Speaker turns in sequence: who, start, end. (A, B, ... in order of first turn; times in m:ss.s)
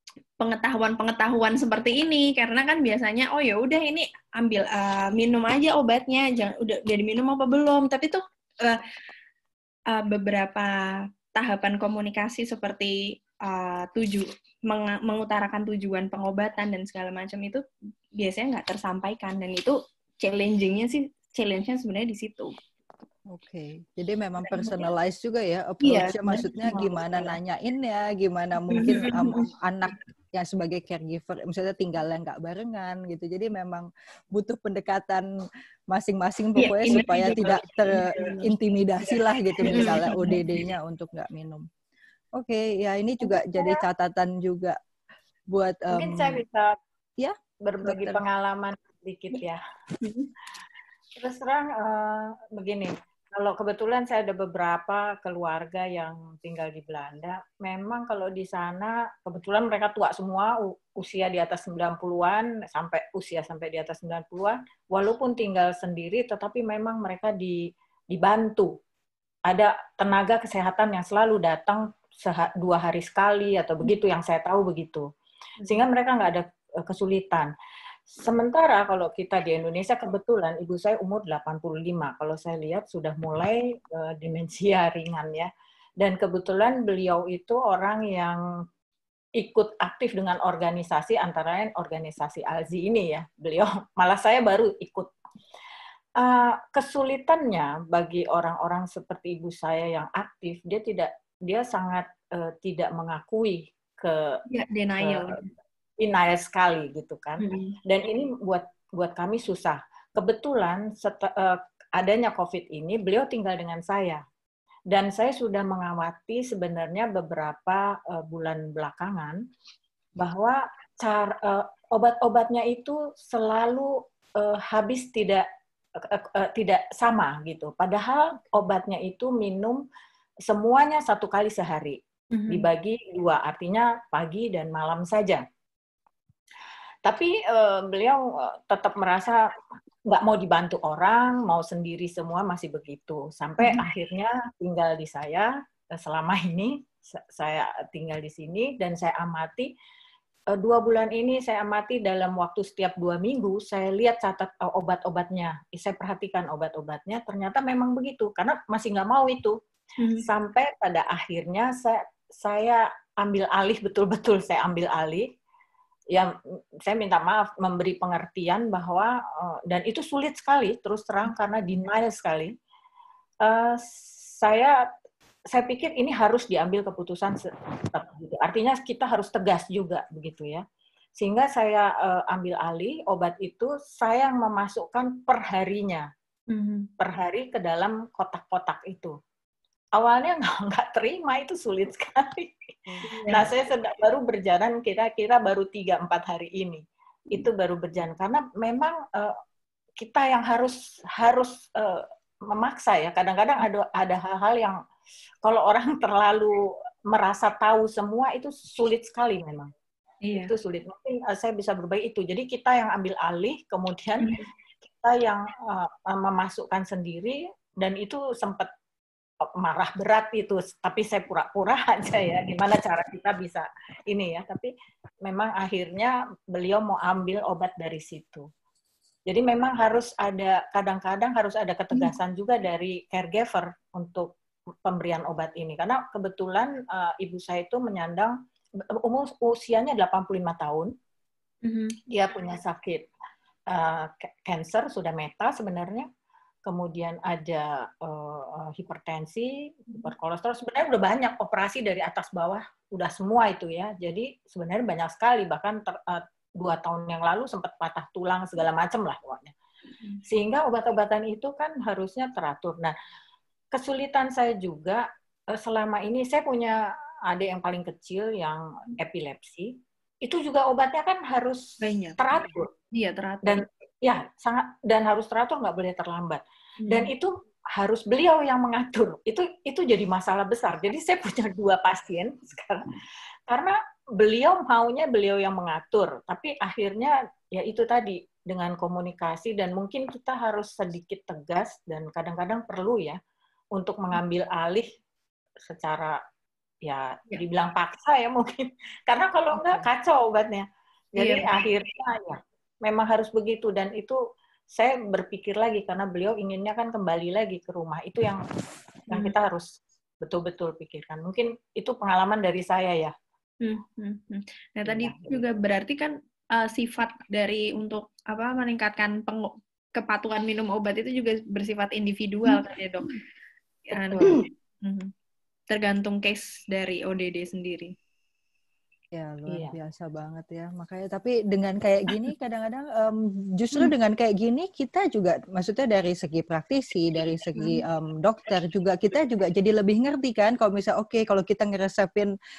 0:00.4-0:08.8 A
0:09.9-0:10.8 A
0:11.4-0:17.6 A
0:18.2-0:22.6 A
0:23.3-0:35.3 B
0:24.5-0:24.8 A
0:25.8-0:27.3 A
0:28.7-0:29.4 A
0:35.9-0:41.7 B
0:36.6-0:38.5 A
0:39.7-0:40.6 A
0:42.3-0:44.8 B
0:43.4-0:43.8 C
0:45.5-0:46.4 B
0:45.9-0:46.8 C
0:47.6-0:49.6 C
0:47.8-0:48.2 A
0:50.0-0:50.3 A
0:51.2-1:08.8 C
1:09.5-1:15.1 C
1:15.6-1:17.5 C
1:18.1-1:28.4 C
1:29.4-1:35.1 C
1:36.2-1:44.4 C
1:44.5-1:45.5 A
1:45.0-1:45.4 C
1:46.0-1:54.2 C
1:47.4-1:47.7 A
1:54.9-1:59.4 C
2:00.2-2:05.4 C
2:06.0-2:09.8 C
2:10.5-2:15.4 C
2:12.3-2:12.7 A
2:17.0-2:19.5 C
2:20.1-2:29.7 C
2:30.5-2:39.6 C
2:40.0-2:40.2 A
2:40.2-2:45.3 C
2:46.8-2:52.5 C
2:53.4-2:53.8 C
2:54.4-2:54.8 C
2:55.5-3:00.6 C
3:01.2-3:06.1 C
3:06.5-3:06.9 A
3:07.0-3:09.1 C
3:10.0-3:19.3 C
3:13.0-3:13.5 A
3:20.0-3:24.8 C
3:25.4-3:29.7 C
3:30.2-3:30.5 A
3:30.4-3:34.4 C
3:34.9-3:38.7 C
3:39.4-3:44.7 C
3:45.2-3:48.5 C
3:49.3-3:54.3 C
3:54.8-3:58.4 C
3:59.0-4:00.9 C
4:01.6-4:02.0 A
4:02.1-4:03.1 C
4:03.7-4:06.1 C
4:06.6-4:19.5 C
4:20.2-4:22.9 C
4:23.7-4:32.7 C
4:31.8-4:33.6 A
4:33.4-4:43.0 C
4:36.8-4:37.1 A
4:43.5-4:53.2 C
4:53.7-4:54.9 C
4:55.6-4:56.2 C
4:56.8-5:04.2 C
4:59.6-4:59.8 B
5:01.2-5:01.5 A
5:04.7-5:08.4 C
5:09.1-5:09.7 C
5:10.2-5:13.1 C
5:13.6-5:23.1 A
5:14.8-5:15.4 C
5:23.9-5:25.1 A
5:24.0-5:24.4 C
5:25.7-5:27.9 A
5:29.1-5:42.3 B
5:29.5-5:29.8 C
5:37.6-5:37.8 A